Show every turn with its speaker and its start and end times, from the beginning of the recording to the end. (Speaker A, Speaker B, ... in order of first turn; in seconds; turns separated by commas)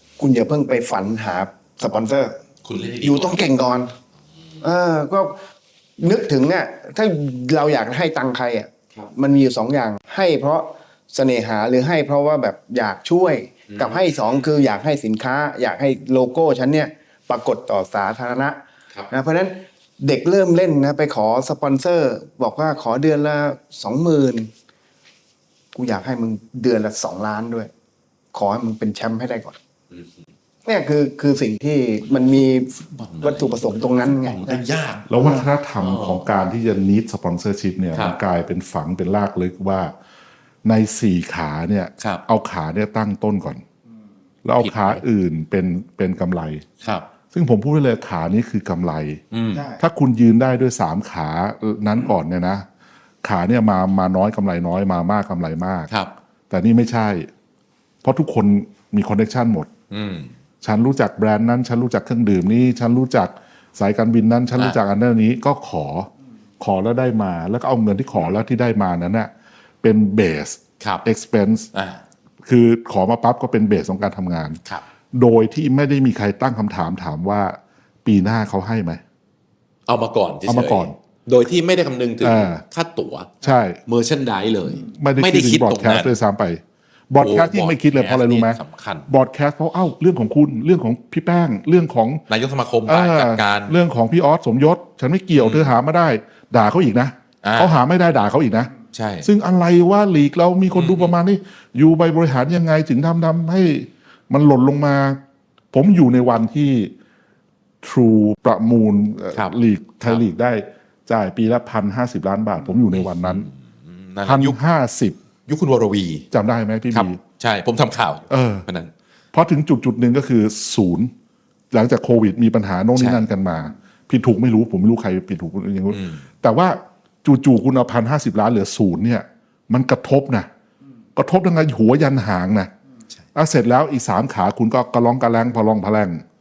Speaker A: 0.2-2.3, Speaker B: 2.6-3.4, Speaker A: 3.0-3.9, Speaker A: 4.6-5.4, Speaker A: 6.0-18.6, Speaker B: 13.7-14.0, Speaker A: 19.1-24.5, Speaker A: 25.7-27.7, Speaker A: 28.3-29.6, Speaker A: 30.6-34.6, Speaker B: 32.8-36.2, Speaker C: 35.1-39.9, Speaker C: 40.6-43.6, Speaker C: 44.4-46.7, Speaker B: 44.6-45.0, Speaker B: 46.8-47.1, Speaker C: 47.3-49.2, Speaker B: 49.3-49.7, Speaker C: 49.7-52.6, Speaker C: 53.2-55.9, Speaker C: 56.5-57.3, Speaker C: 58.0-59.7, Speaker B: 59.9-60.3, Speaker C: 60.6-69.3, Speaker C: 69.8-71.7, Speaker B: 70.8-71.0, Speaker B: 71.7-72.0, Speaker C: 72.5-74.6, Speaker C: 75.1-79.0, Speaker B: 79.9-86.1, Speaker C: 80.5-80.9, Speaker C: 82.2-82.6, Speaker C: 83.4-83.8, Speaker C: 84.8-92.2, Speaker B: 87.2-89.1, Speaker B: 92.3-93.8, Speaker C: 92.8-98.7, Speaker B: 95.4-95.7, Speaker B: 97.4-97.7, Speaker B: 98.9-99.3, Speaker C: 99.2-105.2, Speaker B: 100.7-101.1, Speaker C: 105.7-106.9, Speaker C: 107.8-113.5, Speaker B: 109.3-110.2, Speaker B: 112.9-114.5, Speaker C: 114.2-115.2, Speaker B: 115.5-116.3, Speaker C: 116.3-117.2, Speaker B: 116.9-118.9, Speaker C: 118.3-118.7, Speaker C: 119.3-121.1, Speaker C: 121.7-130.5, Speaker B: 123.0-123.2, Speaker B: 125.9-126.2, Speaker C: 131.1-132.7, Speaker C: 133.3-136.2